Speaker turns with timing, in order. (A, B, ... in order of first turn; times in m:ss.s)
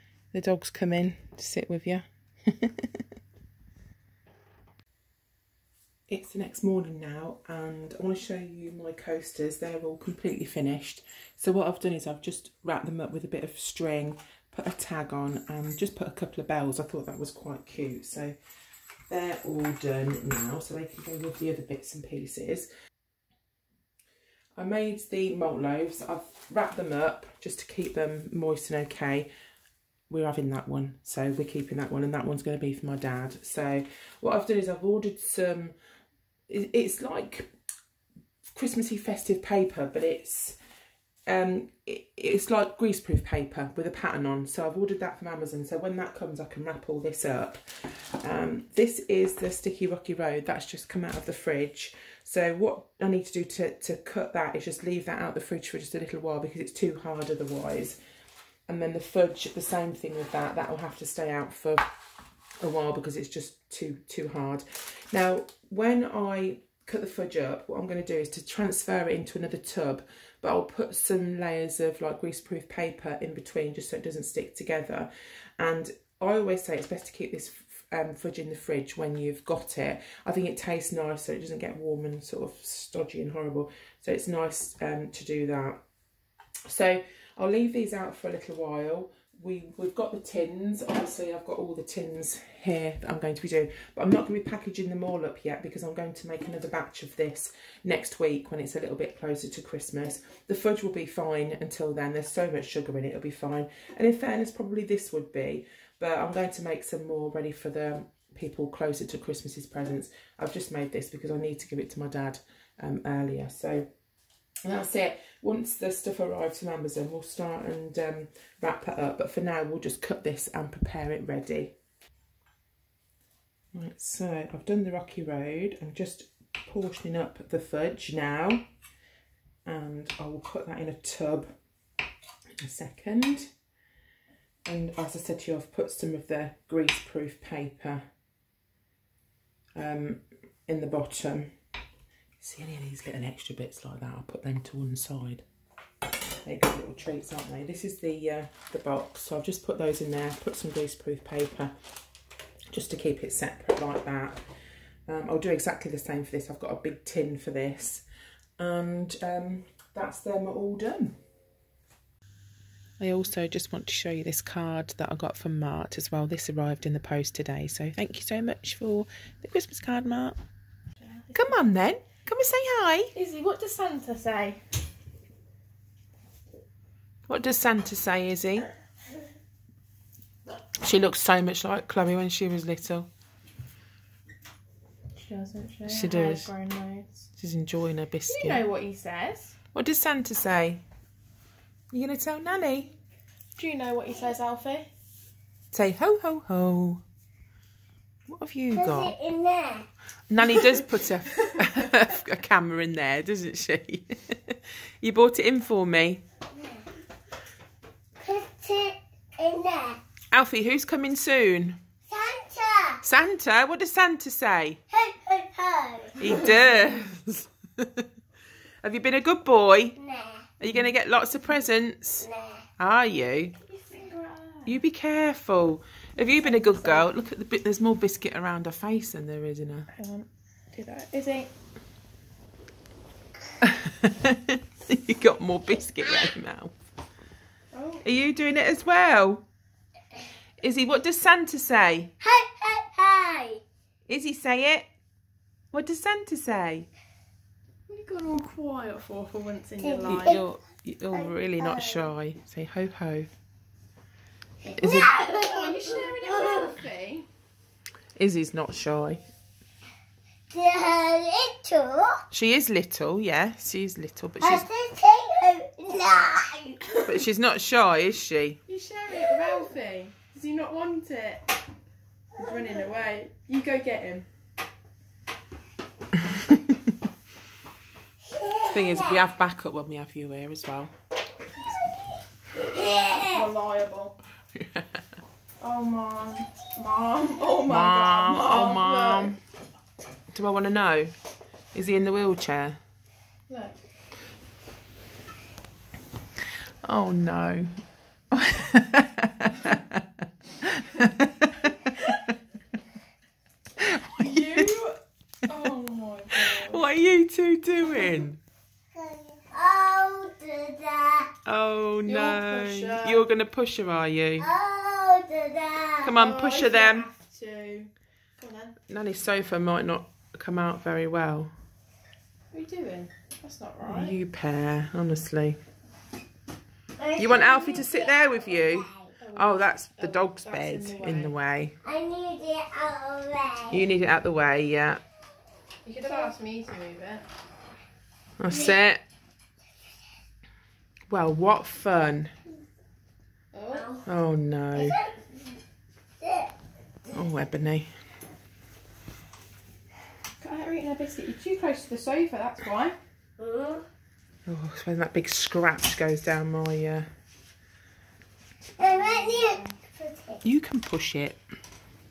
0:00.3-0:03.0 A
0:06.1-0:18.4 A
0:19.1-0:22.7 A
0:24.6-0:29.3 A
0:30.1-0:35.7 A
0:36.5-0:37.5 A
0:38.5-0:40.6 A
0:41.3-0:58.0 A
0:58.7-1:01.9 A
1:02.6-1:25.8 A
1:26.7-1:53.9 A
1:54.6-2:01.8 A
2:03.7-2:08.7 A
2:09.7-2:11.5 A
2:12.6-2:13.5 A
2:14.7-2:18.1 A
2:19.8-2:21.5 A
2:22.4-2:25.4 A
2:26.4-2:31.8 A
2:32.7-2:34.4 A
2:35.1-2:38.0 A
2:38.6-2:41.2 A
2:43.0-2:50.4 A
2:51.0-2:51.6 B
2:51.3-2:53.1 A
2:53.1-2:54.6 B
2:57.3-2:58.7 A
3:00.8-3:03.1 A
3:05.2-3:07.3 B
3:05.9-3:06.5 A
3:07.4-3:08.6 A
3:08.3-3:09.6 B
3:09.7-3:10.8 A
3:11.9-3:12.9 A
3:13.6-3:14.9 B
3:15.7-3:17.0 A
3:18.3-3:19.1 A
3:18.7-3:19.9 C
3:20.3-3:26.2 A
3:26.5-3:26.8 C
3:28.2-3:30.0 C
3:30.3-3:31.8 A
3:32.1-3:33.0 C
3:33.0-3:34.8 A
3:34.9-3:36.5 C
3:36.2-3:38.1 A
3:38.8-3:40.0 A
3:40.0-3:40.5 C
3:40.6-3:42.3 A
3:42.2-3:42.6 C
3:42.8-3:43.6 A
3:43.7-3:44.8 B
3:44.6-3:49.9 A
3:46.4-3:47.1 B
3:49.9-3:51.5 B
3:53.6-3:56.7 A
3:57.7-3:58.0 B
3:58.0-3:59.4 A
4:00.6-4:02.1 A
4:02.2-4:03.6 C
4:04.1-4:04.9 A
4:05.7-4:06.9 A
4:07.9-4:10.4 B
4:09.8-4:10.5 C
4:10.1-4:13.3 A
4:11.1-4:12.1 C
4:14.6-4:16.7 C
4:14.8-4:15.1 A
4:14.8-4:17.3 B
4:18.2-4:19.2 A
4:20.5-4:22.2 C
4:22.3-4:24.7 A
4:24.4-4:27.0 C
4:27.0-4:28.6 A
4:28.7-4:31.5 B
4:29.2-4:29.6 C
4:32.4-4:34.3 B
4:38.3-4:39.2 C
4:38.7-4:40.9 A
4:42.6-4:43.5 C
4:43.2-4:44.2 B
4:44.6-4:44.9 A
4:45.6-4:49.4 B
4:47.7-4:49.4 A
4:50.3-4:51.1 A
4:51.7-4:52.8 A
4:53.5-4:53.8 B
4:56.8-5:00.0 A
5:00.6-5:01.9 A
5:03.8-5:04.8 A
5:04.2-5:06.8 B
5:06.3-5:08.4 A
5:08.9-5:11.3 C
5:11.5-5:14.5 A
5:12.0-5:13.4 B
5:14.4-5:16.1 C
5:16.0-5:17.1 A
5:16.1-5:18.8 B
5:18.9-5:21.5 A
5:22.5-5:24.2 B
5:23.8-5:25.6 A
5:27.0-5:29.2 C
5:27.2-5:31.8 A
5:29.2-5:31.4 B
5:31.8-5:33.8 C
5:33.7-5:35.0 A
5:35.8-5:37.2 B
5:38.4-5:39.0 A
5:41.1-5:42.4 A
5:43.5-5:44.0 B
5:43.7-5:44.0 C
5:44.1-5:45.0 A
5:44.8-5:45.2 C
5:46.2-5:46.5 C
5:47.1-5:47.9 A
5:50.4-5:53.0 B
5:53.4-5:53.8 C
5:54.5-5:57.1 A
5:58.8-5:59.8 B
5:58.8-6:00.4 C
6:00.4-6:01.4 A